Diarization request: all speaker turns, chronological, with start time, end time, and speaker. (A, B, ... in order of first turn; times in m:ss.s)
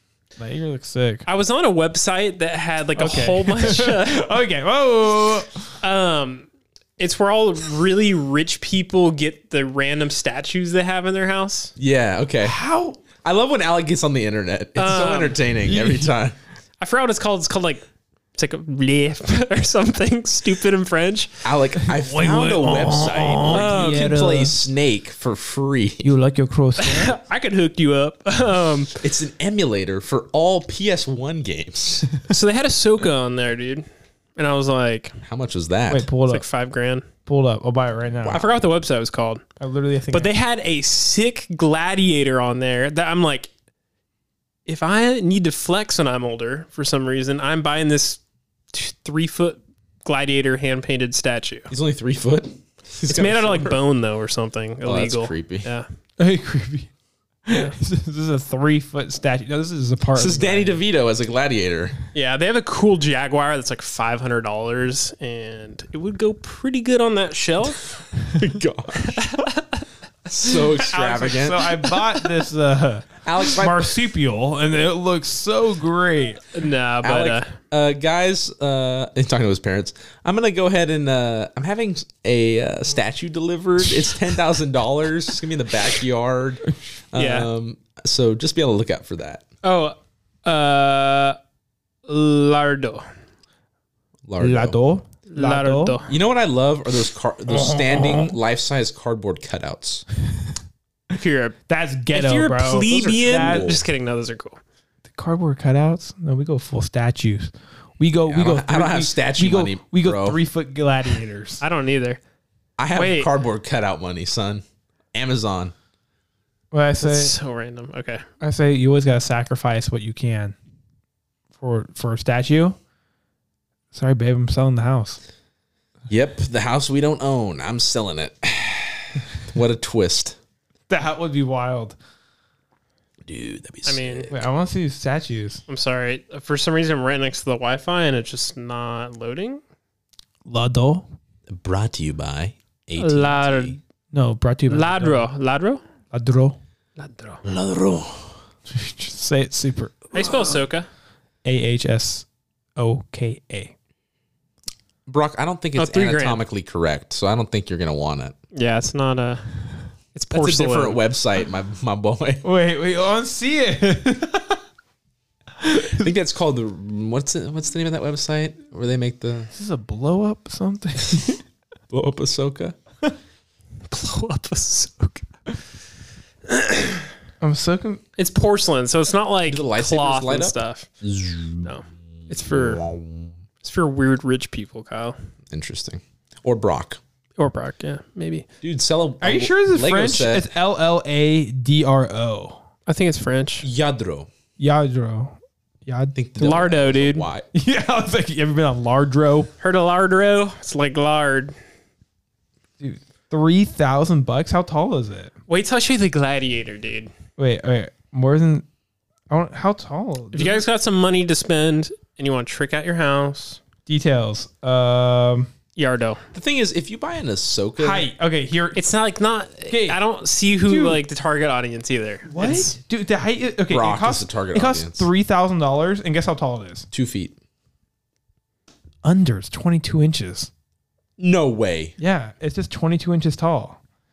0:00.4-0:01.3 A
0:01.3-0:04.3 B
0:03.0-0:05.6 A
0:05.8-0:06.5 B
0:07.0-0:11.7 B
0:11.8-0:12.6 C
0:12.4-0:13.0 A
0:13.2-0:16.4 C
0:14.8-0:15.4 B
0:15.6-0:16.1 A
0:16.8-0:17.8 B
0:18.4-0:21.4 B
0:21.4-0:26.1 C
0:21.8-0:24.6 A
0:23.5-0:24.1 B
0:26.0-0:27.2 A
0:26.8-0:28.9 B
0:29.0-0:32.1 C
0:32.3-0:33.8 B
0:34.4-0:35.2 B
0:35.2-0:36.1 C
0:35.9-0:36.4 A
0:36.3-0:37.1 B
0:37.3-0:38.4 A
0:38.3-0:39.4 B
0:39.6-0:40.3 A
0:40.1-0:43.5 B
0:44.7-0:48.2 B
0:48.7-0:51.7 B
0:51.7-0:53.8 C
0:53.1-0:55.9 B
0:54.8-0:55.7 C
0:56.2-0:56.9 A
0:57.5-1:00.8 A
1:00.2-1:01.9 C
1:02.1-1:08.1 B
1:08.4-1:09.2 C
1:09.0-1:09.8 B
1:10.3-1:11.9 C
1:10.8-1:16.4 A
1:13.2-1:13.9 C
1:16.5-1:17.5 B
1:17.0-1:29.4 C
1:27.2-1:27.5 B
1:29.6-1:31.4 B
1:32.1-1:33.1 B
1:34.3-1:34.8 C
1:34.4-1:36.0 A
1:35.3-1:36.2 B
1:36.1-1:40.0 C
1:37.5-1:38.3 A
1:41.1-1:41.6 B
1:41.7-1:43.7 A
1:42.1-1:44.6 B
1:42.9-1:43.8 C
1:45.2-1:51.6 A
1:48.3-1:50.4 C
1:51.6-1:52.2 B
1:52.8-1:54.6 C
1:53.0-1:53.3 B
1:55.1-1:55.7 C
1:56.7-1:57.3 A
1:57.0-1:58.2 B
1:58.4-2:00.6 A
2:01.6-2:02.8 A
2:03.9-2:05.2 A
2:06.1-2:10.4 C
2:10.9-2:12.0 A
2:13.3-2:14.4 C
2:13.9-2:14.3 B
2:14.3-2:15.6 A
2:15.7-2:19.6 B
2:20.5-2:21.1 A
2:21.5-2:23.8 C
2:23.0-2:23.8 B
2:24.1-2:25.3 A
2:24.7-2:25.8 B
2:26.1-2:26.6 A
2:27.0-2:27.4 B
2:27.4-2:28.4 C
2:28.7-2:30.1 A
2:30.1-2:30.9 B
2:31.4-2:32.3 A
2:32.8-2:33.7 A
2:35.1-2:38.4 C
2:35.8-2:36.4 B
2:38.5-2:39.4 B
2:40.1-2:41.0 B
2:40.3-2:42.4 C
2:42.4-2:44.6 A
2:45.6-2:46.1 A
2:46.0-2:49.5 C
2:49.5-2:51.4 A
2:51.9-2:52.8 C
2:53.9-2:55.3 B
2:56.5-2:57.0 B
2:57.4-2:58.0 A
2:58.2-3:00.9 B
2:59.5-3:01.7 C
3:01.6-3:02.8 B
3:02.4-3:03.3 C
3:03.6-3:05.2 B
3:05.5-3:07.0 C
3:07.4-3:08.5 B
3:08.6-3:10.5 C
3:09.2-3:12.6 A
3:12.9-3:13.7 B
3:13.6-3:14.3 C
3:14.6-3:16.2 A
3:16.2-3:17.5 C
3:16.4-3:17.3 B
3:17.5-3:19.5 A
3:19.6-3:21.6 B
3:22.8-3:25.3 A
3:25.5-3:27.1 B
3:27.4-3:28.6 A
3:29.3-3:30.6 A
3:30.3-3:33.6 B
3:33.9-3:35.5 A
3:35.8-3:36.2 B
3:36.3-3:38.1 C
3:37.8-3:38.8 A
3:38.8-3:42.8 B
3:39.7-3:40.0 A
3:40.7-3:41.0 A
3:42.3-3:46.9 A
3:43.7-3:45.1 C
3:46.9-3:47.4 C
3:49.0-3:50.5 A
3:51.2-3:51.9 C
3:52.0-3:53.8 A